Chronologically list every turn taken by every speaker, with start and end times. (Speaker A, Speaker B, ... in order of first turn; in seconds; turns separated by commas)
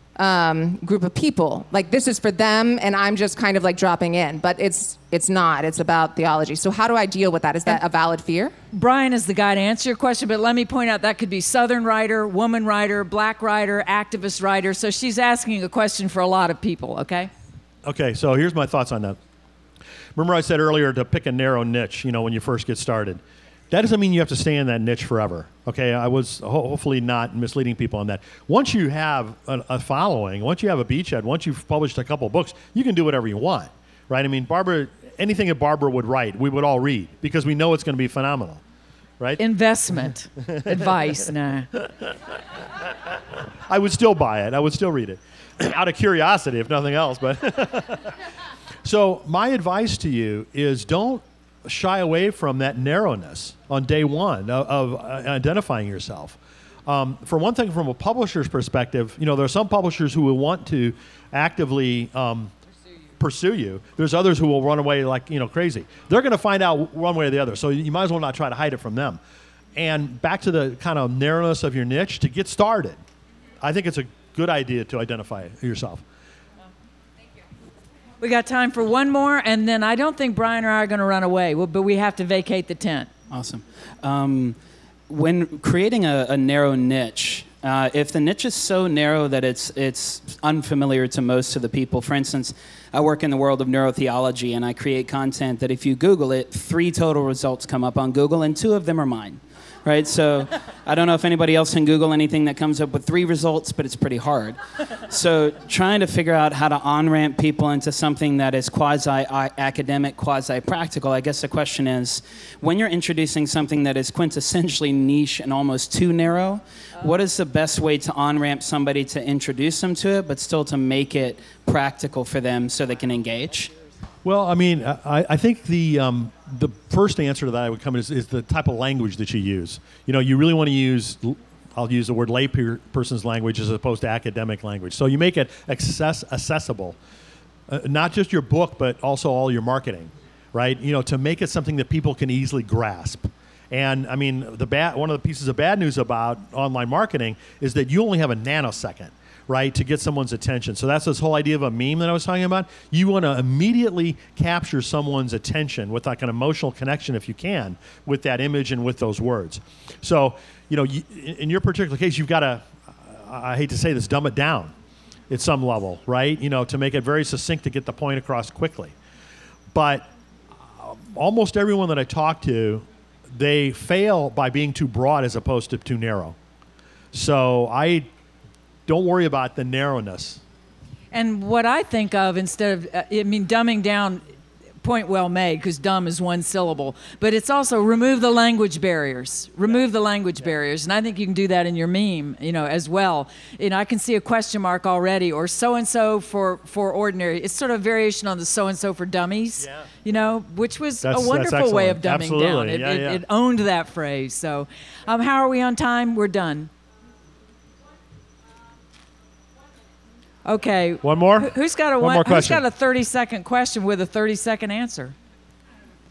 Speaker A: 0.2-8.6, Speaker B: 8.7-17.3, Speaker C: 17.8-19.2, Speaker C: 20.1-38.6, Speaker B: 39.4-41.7, Speaker C: 43.7-48.1, Speaker C: 48.8-62.5, Speaker C: 63.2-69.2, Speaker C: 69.8-73.0, Speaker C: 73.6-76.0, Speaker B: 78.2-83.1, Speaker D: 83.3-84.5, Speaker D: 85.1-123.7, Speaker C: 124.2-136.9, Speaker C: 137.7-164.7, Speaker C: 165.3-168.9, Speaker C: 169.7-170.1, Speaker C: 170.6-176.3, Speaker C: 177.1-178.1, Speaker C: 178.9-180.4, Speaker B: 181.1-184.2, Speaker B: 184.8-206.7, Speaker C: 201.0-203.2, Speaker B: 210.4-215.1, Speaker C: 211.0-212.6